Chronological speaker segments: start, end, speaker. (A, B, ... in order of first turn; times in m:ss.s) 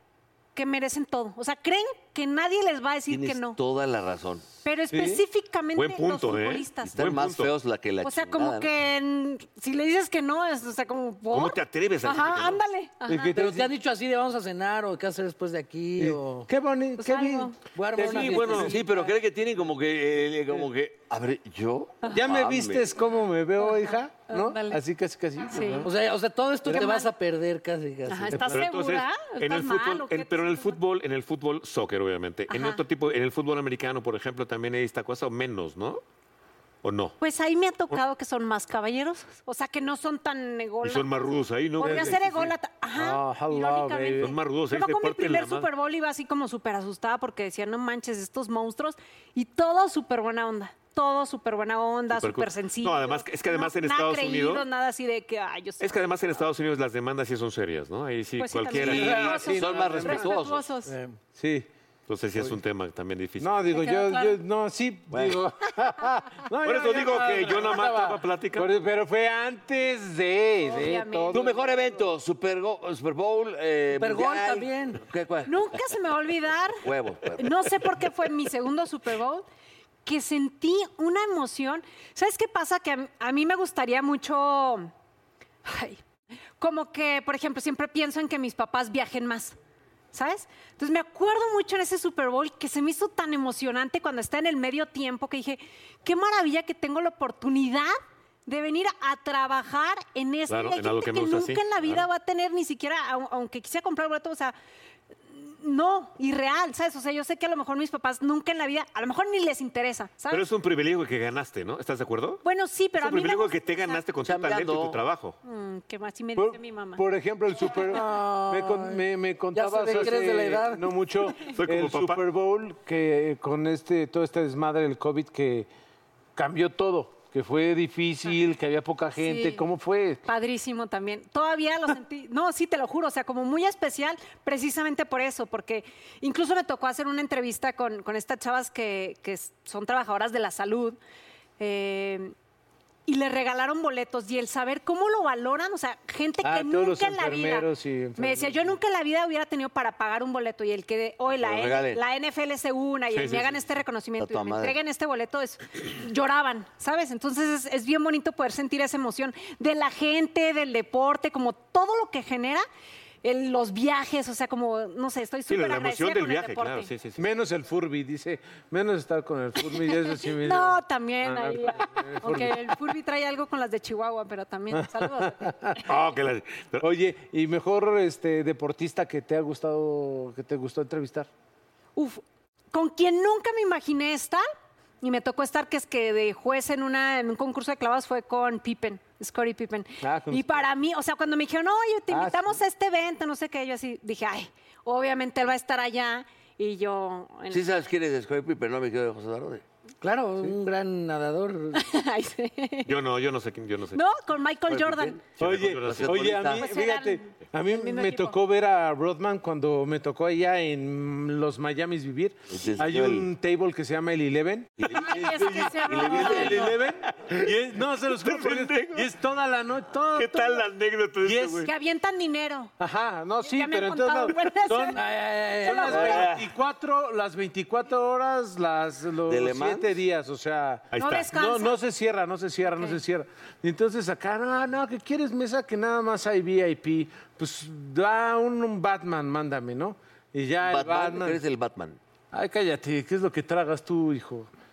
0:00.5-0:03.6 A
0:03.1-0:04.4 B
0:04.6-0:06.9 A
0:04.9-0:05.2 C
0:05.7-0:07.5 D
0:06.8-0:08.7 B
0:08.0-0:13.3 A
0:11.3-0:12.6 D
0:13.0-0:13.7 C
0:13.3-0:16.5 E
0:16.0-0:18.8 C
0:17.0-0:17.5 A
0:17.7-0:19.0 E
0:18.1-0:18.7 D
0:18.6-0:22.8 B
0:22.1-0:25.9 C
0:23.6-0:24.8 A
0:25.4-0:25.8 A
0:25.8-0:28.6 E
0:26.7-0:27.1 A
0:28.1-0:30.8 A
0:28.3-0:28.6 C
0:28.5-0:36.0 D
0:32.5-0:32.8 A
0:36.8-0:37.2 D
0:37.2-0:55.9 A
0:40.8-0:42.5 D
0:41.8-0:42.2 C
0:43.0-0:44.3 C
0:44.2-0:45.7 D
0:52.1-0:54.6 D
0:55.8-0:59.4 D
0:58.4-1:00.9 A
0:58.8-1:00.7 B
0:58.9-1:00.3 C
1:00.8-1:01.7 C
1:02.1-1:03.6 D
1:03.4-1:11.4 C
1:03.7-1:04.4 A
1:05.1-1:05.4 B
1:06.6-1:08.7 D
1:10.6-1:11.6 A
1:11.3-1:15.8 B
1:13.9-1:15.0 E
1:15.4-1:19.4 A
1:16.8-1:17.6 B
1:20.0-1:24.9 A
1:25.6-1:26.0 A
1:26.6-1:29.6 A
1:30.1-1:37.9 A
1:38.4-1:44.5 A
1:40.5-1:42.1 D
1:45.3-1:50.4 A
1:50.3-1:52.4 D
1:52.4-1:54.0 A
1:52.9-1:55.4 D
1:54.2-1:55.0 B
1:55.4-1:57.0 A
1:56.4-2:05.7 C
1:57.7-2:00.8 E
2:01.5-2:02.2 D
2:06.4-2:10.2 C
2:09.2-2:09.6 A
2:10.2-2:21.0 A
2:21.6-2:22.3 A
2:23.0-2:42.6 A
2:26.4-2:28.7 C
2:31.3-2:32.0 B
2:33.1-2:33.5 D
2:34.2-2:34.8 B
2:43.2-2:46.9 A
2:45.5-2:47.2 D
2:47.2-2:52.7 C
2:49.6-2:55.8 A
2:54.7-2:55.8 C
2:55.9-2:56.9 D
2:56.8-3:01.3 C
3:02.0-3:04.4 A
3:05.0-3:17.7 A
3:10.0-3:10.5 C
3:12.1-3:12.6 C
3:17.5-3:19.6 B
3:20.0-3:21.9 E
3:21.7-3:22.9 A
3:22.8-3:24.0 D
3:23.9-3:25.2 A
3:24.7-3:25.2 B
3:25.4-3:26.4 D
3:25.4-3:40.6 C
3:25.9-3:26.6 B
3:26.6-3:28.4 A
3:32.5-3:33.3 B
3:34.8-3:35.1 B
3:34.8-3:36.8 A
3:35.8-3:36.8 B
3:37.0-3:37.5 D
3:38.0-3:39.1 D
3:40.1-3:41.7 D
3:41.2-3:41.7 C
3:41.6-3:42.7 A
3:42.8-3:45.0 C
3:43.4-3:45.0 A
3:45.0-3:46.2 E
3:45.6-4:01.4 C
3:45.6-3:46.3 A
3:45.9-3:46.4 B
3:49.3-3:50.0 B
3:50.9-3:51.3 D
3:50.9-3:51.8 A
3:52.6-3:53.0 A
4:00.6-4:02.0 B
4:02.3-4:04.5 C